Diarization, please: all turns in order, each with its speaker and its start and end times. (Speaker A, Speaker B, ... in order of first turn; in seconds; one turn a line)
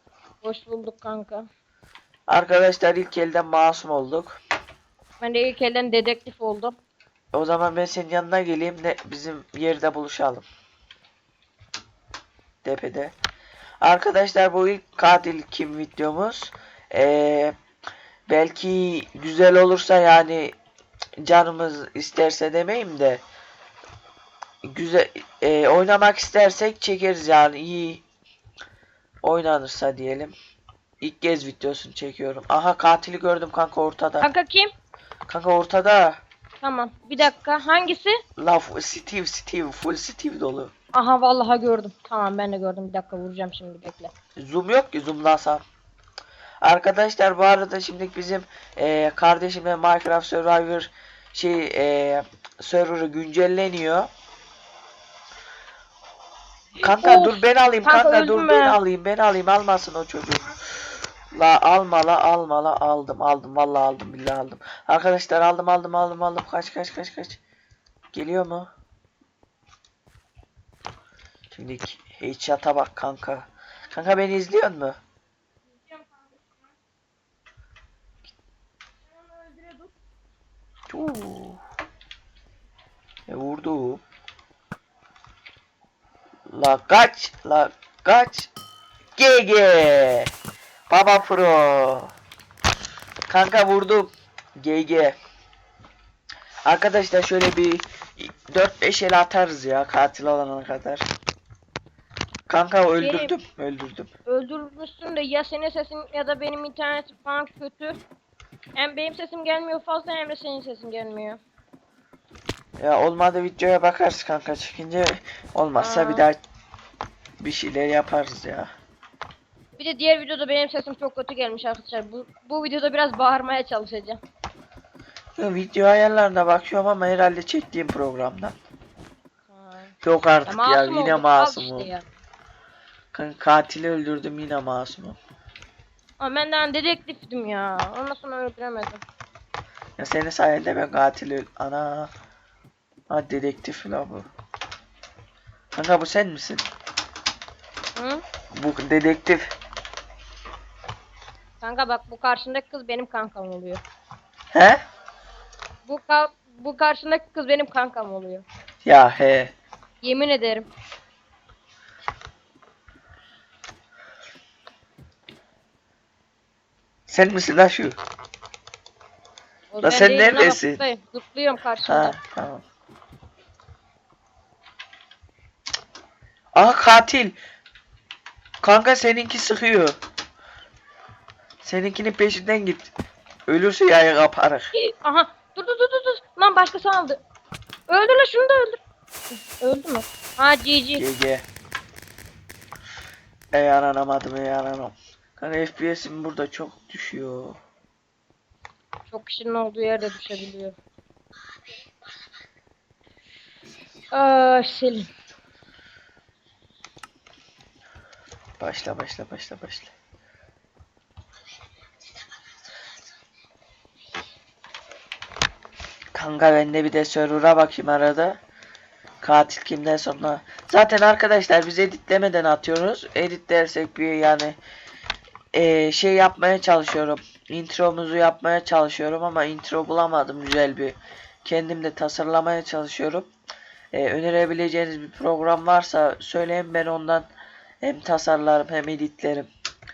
Speaker A: 0.4-1.4
Speaker B: 2.3-4.4
Speaker A: 5.2-6.8
Speaker B: 7.3-10.5
Speaker B: 12.6-13.2
Speaker B: 13.8-17.6
Speaker B: 18.3-20.6
Speaker B: 21.2-23.2
Speaker B: 24.6-28.0
Speaker B: 29.2-30.3
Speaker B: 31.0-34.3
Speaker A: 34.2-34.7
Speaker B: 35.3-36.2
Speaker A: 36.6-38.2
Speaker B: 38.4-40.7
Speaker A: 41.0-44.1
Speaker B: 44.4-45.6
Speaker B: 46.6-54.1
Speaker A: 56.8-58.8
Speaker B: 56.8-60.5
Speaker B: 61.3-67.4
Speaker B: 68.1-68.7
Speaker B: 71.5-75.0
Speaker A: 75.8-76.6
Speaker A: 79.1-79.9
Speaker B: 80.9-81.6
Speaker B: 83.3-84.0
Speaker B: 86.5-88.5
Speaker B: 89.2-90.3
Speaker B: 90.9-92.1
Speaker B: 93.3-95.2
Speaker B: 96.7-101.1
Speaker B: 102.5-104.1
Speaker A: 103.0-103.3
Speaker A: 104.3-108.0
Speaker A: 108.8-111.4
Speaker B: 112.8-116.4
Speaker A: 115.8-116.2
Speaker B: 117.4-118.7
Speaker A: 119.8-124.2
Speaker B: 125.4-128.6
Speaker A: 129.5-129.9
Speaker B: 130.0-131.9
Speaker A: 130.5-132.1
Speaker B: 133.1-135.2
Speaker A: 136.2-139.0
Speaker B: 140.0-142.1
Speaker B: 143.1-144.3
Speaker B: 145.8-146.7
Speaker A: 148.0-148.2
Speaker B: 148.5-149.5
Speaker A: 151.6-153.8
Speaker B: 154.5-154.8
Speaker A: 155.9-158.4
Speaker B: 158.8-159.5
Speaker A: 160.0-160.7
Speaker B: 167.1-168.0
Speaker A: 169.7-172.2
Speaker B: 169.8-170.8
Speaker B: 171.9-172.6
Speaker B: 176.6-177.4
Speaker B: 178.6-180.0
Speaker B: 181.6-182.9
Speaker B: 183.5-184.7
Speaker A: 184.7-187.2
Speaker A: 187.9-188.8
Speaker A: 189.6-191.0
Speaker B: 191.0-191.4
Speaker B: 193.5-197.6
Speaker A: 199.1-200.8
Speaker A: 204.1-205.1
Speaker B: 208.6-209.9
Speaker B: 216.1-218.4
Speaker B: 219.2-224.6
Speaker B: 225.5-233.3
Speaker B: 233.9-237.3
Speaker B: 237.8-239.5